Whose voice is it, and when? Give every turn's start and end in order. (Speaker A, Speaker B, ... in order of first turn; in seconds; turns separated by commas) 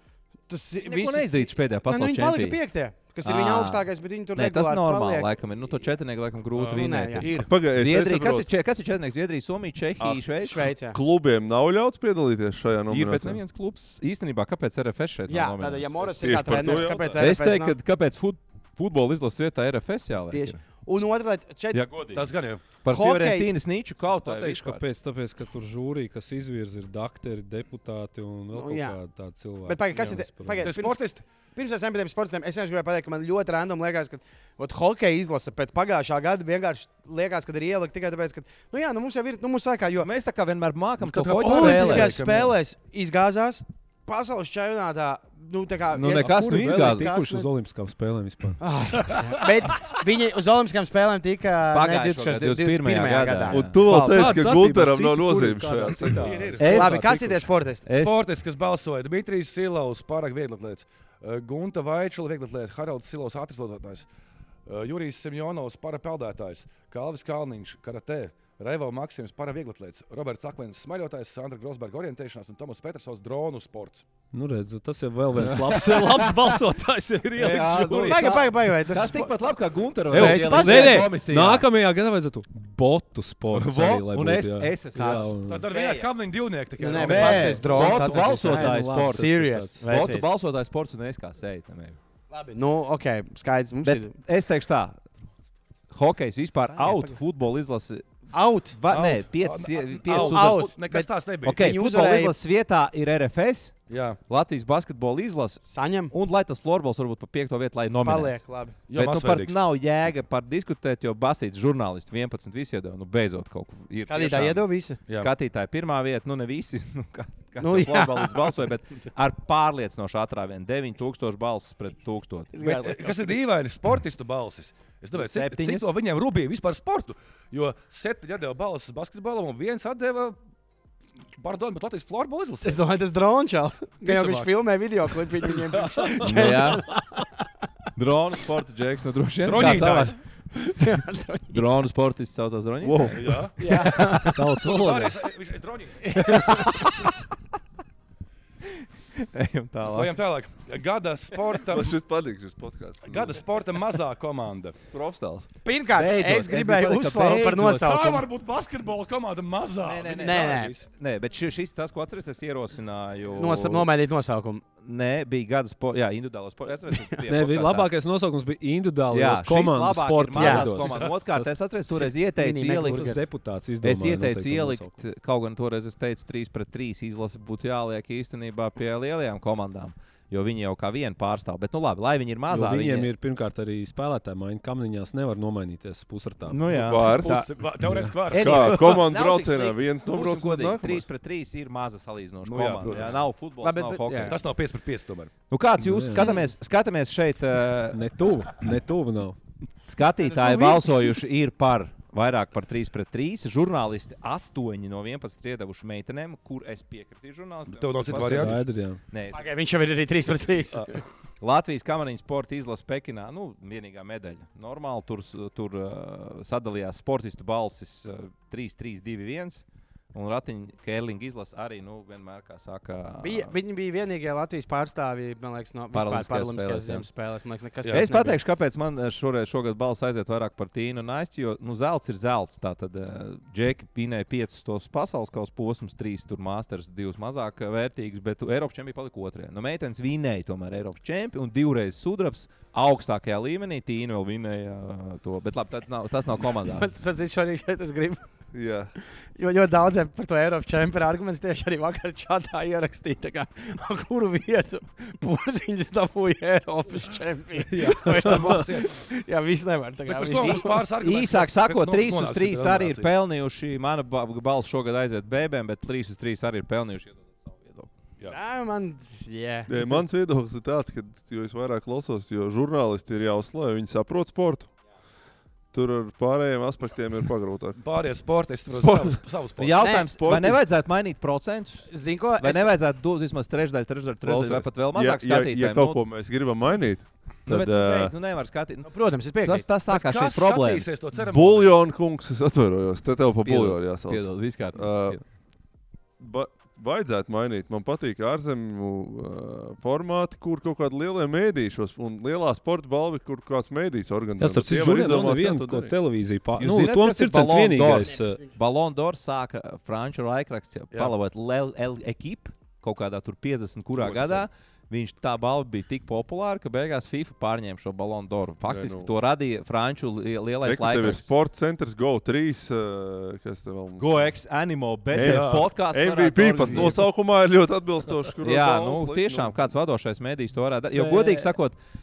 Speaker A: 0.5-5.3, Speaker B: 0.8-2.6, Speaker B: 3.2-10.7, Speaker C: 6.5-7.5, Speaker A: 6.7-7.3, Speaker D: 7.4-8.5, Speaker A: 10.4-11.0, Speaker D: 10.9-13.4, Speaker B: 12.9-15.9, Speaker A: 15.3-17.8, Speaker D: 16.0-17.2, Speaker C: 16.7-17.1, Speaker B: 17.2-20.6, Speaker A: 20.3-21.9, Speaker B: 21.7-22.3, Speaker C: 22.1-22.6, Speaker B: 22.8-24.9, Speaker A: 22.9-23.5, Speaker C: 24.2-24.6, Speaker E: 24.6-30.7, Speaker A: 28.5-29.0, Speaker A: 29.6-40.1, Speaker C: 30.6-31.2, Speaker B: 40.0-42.2, Speaker C: 41.0-42.6, Speaker A: 41.4-47.5, Speaker B: 45.9-47.2, Speaker E: 46.2-48.6, Speaker A: 48.6-54.3, Speaker B: 51.7-54.3, Speaker D: 53.5-56.4, Speaker E: 53.8-57.1, Speaker C: 56.2-57.1, Speaker B: 56.6-58.2, Speaker A: 56.6-57.9, Speaker C: 57.9-64.1, Speaker C: 64.7-74.0, Speaker E: 74.3-78.5, Speaker B: 75.7-76.3, Speaker B: 77.4-81.7, Speaker A: 77.9-79.3, Speaker E: 80.1-85.7, Speaker A: 80.1-81.2, Speaker B: 83.5-86.1, Speaker A: 84.9-85.3, Speaker C: 85.4-88.0, Speaker A: 86.8-90.3, Speaker B: 86.9-89.3, Speaker E: 87.8-90.0, Speaker B: 89.8-92.0, Speaker A: 92.3-94.1, Speaker B: 93.8-95.0, Speaker B: 95.9-100.7, Speaker A: 96.8-97.2, Speaker A: 98.3-98.8, Speaker C: 98.9-101.6, Speaker A: 100.1-102.3, Speaker B: 101.5-122.6, Speaker C: 103.9-104.2, Speaker A: 105.7-106.1, Speaker A: 108.0-108.8, Speaker C: 108.9-109.6, Speaker A: 114.1-115.0, Speaker A: 117.6-118.6, Speaker A: 122.5-123.3, Speaker C: 122.6-130.4, Speaker B: 125.2-125.9, Speaker C: 131.4-132.8, Speaker A: 132.6-137.5, Speaker C: 134.0-134.5, Speaker C: 135.1-136.6, Speaker B: 136.2-136.9, Speaker B: 137.9-140.2, Speaker C: 139.4-140.2, Speaker A: 139.6-139.9, Speaker A: 140.6-141.7, Speaker B: 141.5-144.4, Speaker D: 142.8-143.4, Speaker C: 143.1-143.5, Speaker A: 143.6-144.4, Speaker E: 144.2-145.2, Speaker C: 144.7-146.2, Speaker A: 146.1-147.1, Speaker B: 146.2-147.1, Speaker B: 149.2-150.2, Speaker C: 149.9-152.0, Speaker D: 151.7-153.4, Speaker C: 153.0-154.8, Speaker D: 154.9-155.5, Speaker A: 155.7-158.3, Speaker B: 155.9-158.0, Speaker C: 157.8-160.9, Speaker B: 159.8-163.9, Speaker A: 160.1-160.8, Speaker A: 163.4-164.7, Speaker B: 164.8-167.9, Speaker A: 166.9-167.2, Speaker E: 167.3-171.6, Speaker B: 169.1-173.2, Speaker A: 170.4-170.8, Speaker C: 170.9-171.1, Speaker A: 171.9-173.3, Speaker E: 172.8-175.0, Speaker B: 173.8-183.1, Speaker E: 182.5-186.6, Speaker B: 186.5-187.5, Speaker D: 186.7-187.4, Speaker C: 187.0-189.0, Speaker E: 187.8-188.1, Speaker B: 188.3-194.4, Speaker D: 188.3-191.1, Speaker C: 192.4-193.2, Speaker A: 193.6-194.4, Speaker C: 194.3-195.3, Speaker B: 195.5-198.5, Speaker E: 195.8-196.4, Speaker E: 197.9-199.4, Speaker B: 199.9-209.5, Speaker A: 200.2-201.2, Speaker C: 207.7-208.6, Speaker E: 208.2-209.0, Speaker A: 209.3-211.0, Speaker B: 211.4-223.5, Speaker A: 223.2-228.4, Speaker B: 225.9-227.1, Speaker C: 227.8-228.1, Speaker B: 227.9-246.9, Speaker A: 246.7-248.2, Speaker D: 248.5-248.9, Speaker A: 249.4-260.8, Speaker E: 257.7-258.6, Speaker C: 257.8-258.9, Speaker C: 260.1-263.1, Speaker B: 260.4-267.9, Speaker A: 268.3-270.0, Speaker D: 269.7-274.7, Speaker D: 275.7-277.8, Speaker C: 277.8-279.8, Speaker D: 278.7-279.2, Speaker B: 279.6-286.0, Speaker A: 279.8-280.2, Speaker D: 280.0-280.6, Speaker A: 281.9-282.7, Speaker D: 284.2-288.1, Speaker B: 287.5-290.9, Speaker A: 288.9-289.7, Speaker C: 289.9-291.8, Speaker D: 291.1-295.2, Speaker B: 293.4-295.2, Speaker D: 296.2-306.0, Speaker E: 304.4-308.4, Speaker B: 306.6-321.3, Speaker C: 314.0-314.4, Speaker D: 318.7-319.1, Speaker D: 320.6-324.3, Speaker B: 324.0-327.0, Speaker D: 325.1-329.6, Speaker C: 325.2-325.7, Speaker B: 328.4-331.8, Speaker A: 330.9-331.6